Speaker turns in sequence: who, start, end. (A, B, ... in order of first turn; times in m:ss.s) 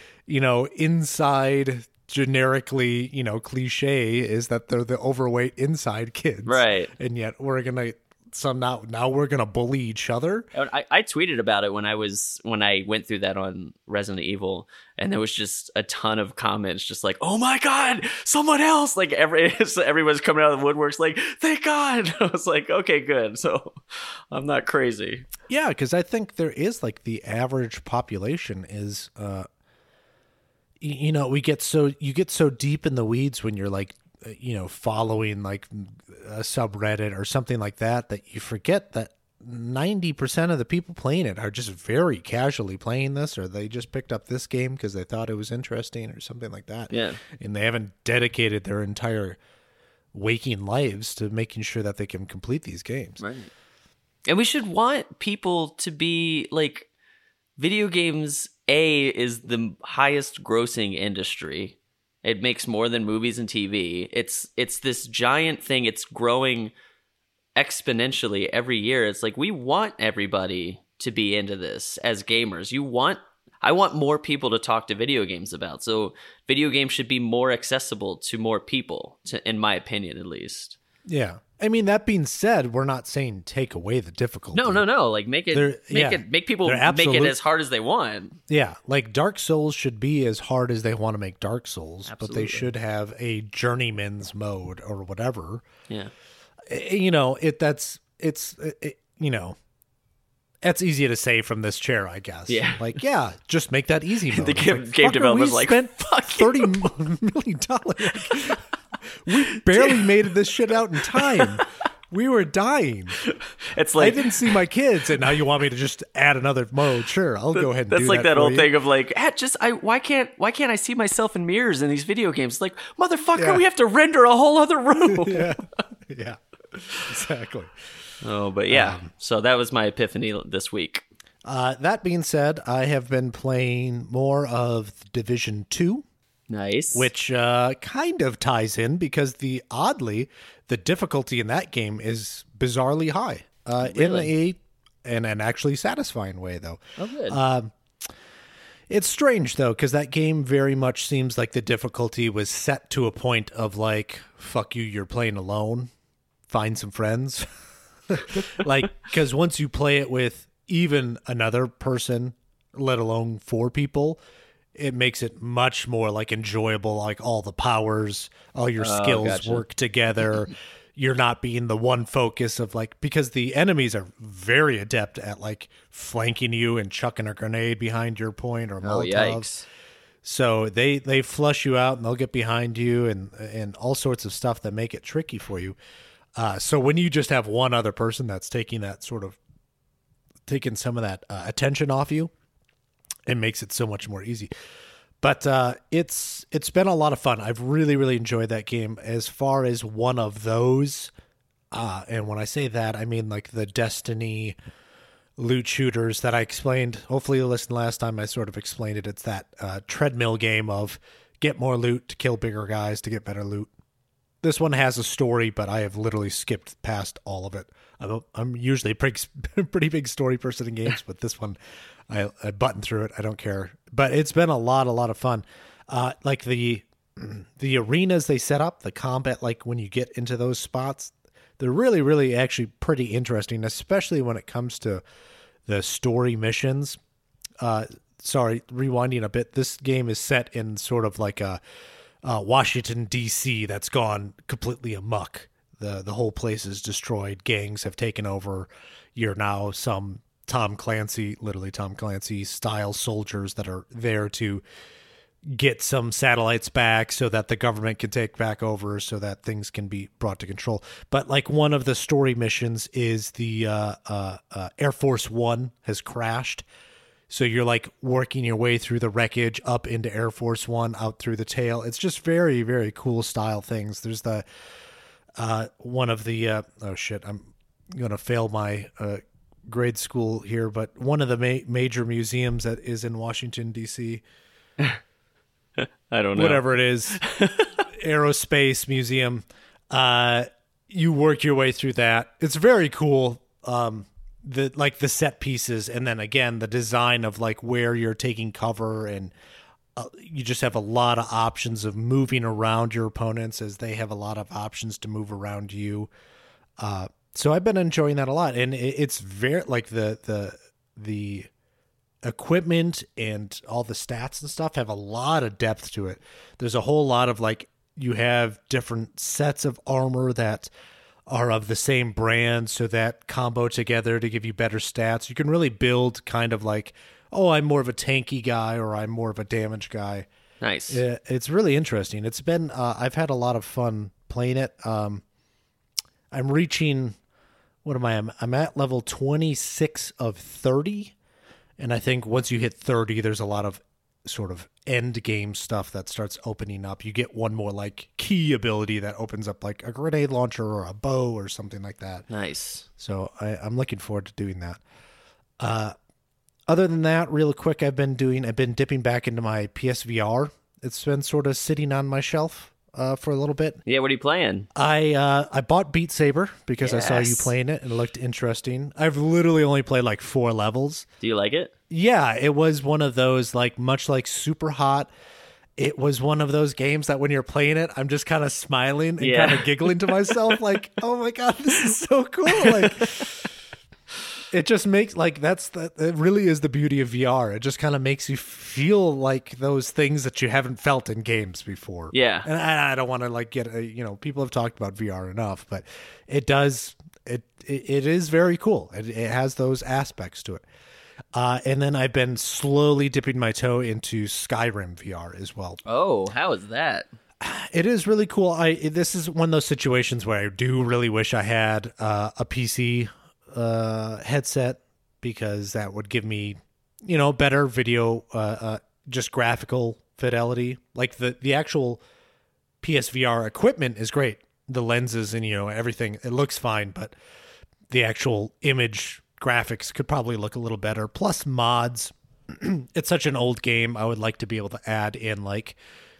0:00.3-0:10.5 A
0:06.4-0:06.9 B
0:10.5-0:25.3 B
0:25.5-0:29.5 A
0:30.8-0:49.4 A
0:46.9-0:47.2 B
0:50.1-0:53.2 A
0:53.2-0:53.5 B
0:54.3-0:56.9 B
0:57.6-1:06.7 B
1:07.6-1:20.8 B
1:21.1-1:24.8 A
1:24.5-1:28.4 B
1:25.5-1:27.4 A
1:28.5-1:35.6 A
1:32.1-1:32.7 B
1:36.7-1:39.6 A
1:40.6-1:53.2 A
1:42.5-1:43.0 B
1:44.3-1:46.9 B
1:48.2-1:48.6 B
1:49.3-1:50.1 B
1:51.0-1:51.6 B
1:53.2-1:54.6 B
1:54.0-1:58.7 A
1:57.6-2:05.5 B
2:03.4-2:03.6 A
2:05.1-2:06.4 A
2:06.9-2:07.7 A
2:08.2-2:11.0 B
2:08.7-2:09.1 A
2:11.4-2:16.0 A
2:16.5-2:17.1 B
2:16.9-2:27.7 A
2:23.8-2:24.3 B
2:27.0-2:27.4 B
2:28.9-2:35.9 A
2:36.5-2:37.5 A
2:38.1-2:44.2 A
2:44.7-2:59.5 A
2:48.8-2:49.6 B
2:58.8-2:59.6 B
3:00.2-3:05.8 A
3:06.4-3:09.4 A
3:10.5-3:12.3 A
3:13.3-3:14.5 A
3:15.2-3:21.1 A
3:21.7-3:24.6 A
3:25.4-3:33.7 A
3:34.4-3:41.6 A
3:42.1-3:55.0 A
3:55.6-3:57.0 A
3:57.6-4:01.6 A
4:02.2-4:14.6 A
4:15.5-4:26.6 A
4:27.3-4:34.4 A
4:35.4-4:44.2 A
4:45.8-4:47.8 B
4:46.3-4:47.2 A
4:47.9-4:59.3 A
5:00.0-5:06.1 A
5:06.8-5:11.5 A
5:12.2-5:20.7 A
5:21.3-5:30.3 A
5:30.6-5:31.0 B
5:30.9-5:35.2 A
5:36.3-5:37.2 A
5:37.8-5:41.1 A
5:41.8-5:52.2 A
5:52.3-5:52.8 B
5:53.0-5:54.8 A
5:55.6-5:55.9 A
5:56.7-6:03.8 A
6:03.8-6:04.7 B
6:04.7-6:11.1 A
6:06.8-6:07.5 B
6:11.2-6:11.7 B
6:11.9-6:15.1 A
6:15.8-6:23.5 A
6:19.2-6:20.5 B
6:22.5-6:23.2 B
6:24.5-6:40.6 A
6:32.1-6:32.5 B
6:41.3-6:45.8 A
6:45.8-6:47.1 B
6:47.4-7:02.0 A
7:02.8-7:07.1 A
7:07.9-7:15.8 A